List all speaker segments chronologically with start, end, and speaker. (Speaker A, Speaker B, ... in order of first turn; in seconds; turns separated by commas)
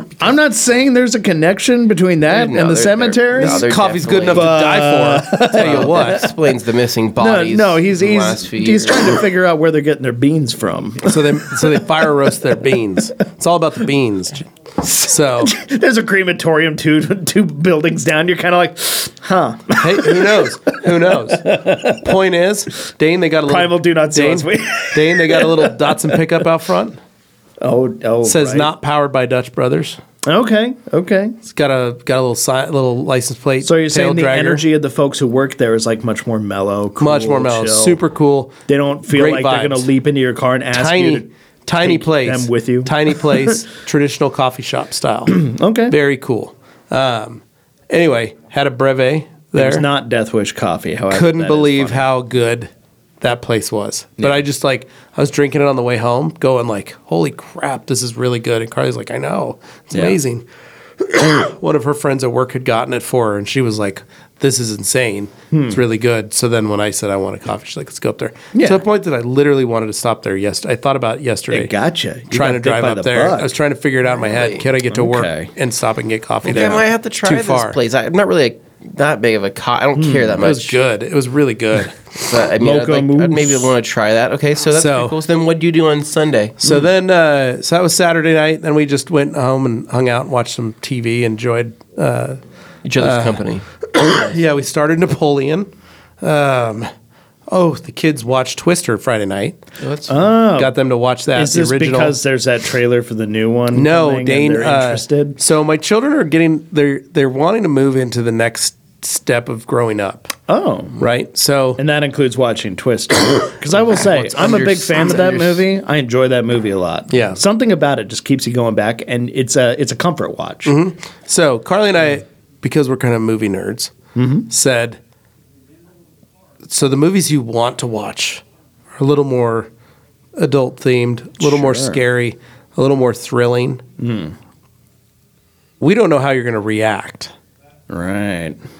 Speaker A: 0.2-3.7, Speaker B: 2.3-4.6, Speaker C: 3.4-6.3, Speaker A: 4.3-6.3, Speaker B: 5.5-9.2, Speaker A: 7.2-11.8, Speaker C: 11.0-15.6, Speaker A: 14.8-22.1, Speaker C: 19.8-27.0, Speaker A: 23.5-26.2, Speaker A: 27.6-28.7, Speaker C: 28.2-30.0, Speaker A: 30.2-31.4, Speaker C: 31.5-34.6, Speaker A: 33.6-38.0, Speaker C: 37.0-39.9, Speaker A: 38.7-41.3, Speaker C: 40.7-49.9, Speaker A: 41.8-43.6, Speaker A: 45.3-46.0, Speaker A: 49.6-52.0, Speaker C: 51.1-52.7, Speaker C: 53.2-60.4, Speaker A: 59.9-60.2, Speaker C: 61.0-71.7, Speaker A: 65.5-65.8, Speaker A: 68.5-68.8, Speaker A: 71.5-73.5, Speaker C: 72.3-77.8, Speaker B: 74.2-74.7, Speaker A: 74.9-75.5, Speaker B: 76.4-80.8, Speaker A: 80.0-80.4, Speaker C: 80.4-82.1, Speaker B: 82.2-86.6, Speaker A: 82.6-83.7, Speaker C: 84.7-85.1, Speaker C: 86.6-92.4, Speaker B: 92.8-94.2, Speaker C: 93.0-95.7, Speaker C: 96.2-96.9, Speaker C: 97.5-99.6, Speaker B: 99.8-100.2, Speaker A: 100.1-100.8, Speaker C: 100.5-102.2, Speaker A: 101.3-105.4, Speaker C: 103.7-110.3, Speaker A: 110.5-111.1, Speaker C: 111.0-111.8, Speaker A: 111.8-120.8, Speaker B: 113.9-115.6, Speaker C: 117.1-117.4, Speaker C: 120.7-124.0, Speaker A: 124.2-124.5, Speaker C: 124.5-125.0, Speaker C: 126.7-128.4, Speaker C: 129.0-129.7, Speaker C: 130.4-133.8, Speaker A: 131.4-132.0, Speaker A: 134.0-134.3, Speaker C: 135.8-137.3, Speaker A: 137.9-138.6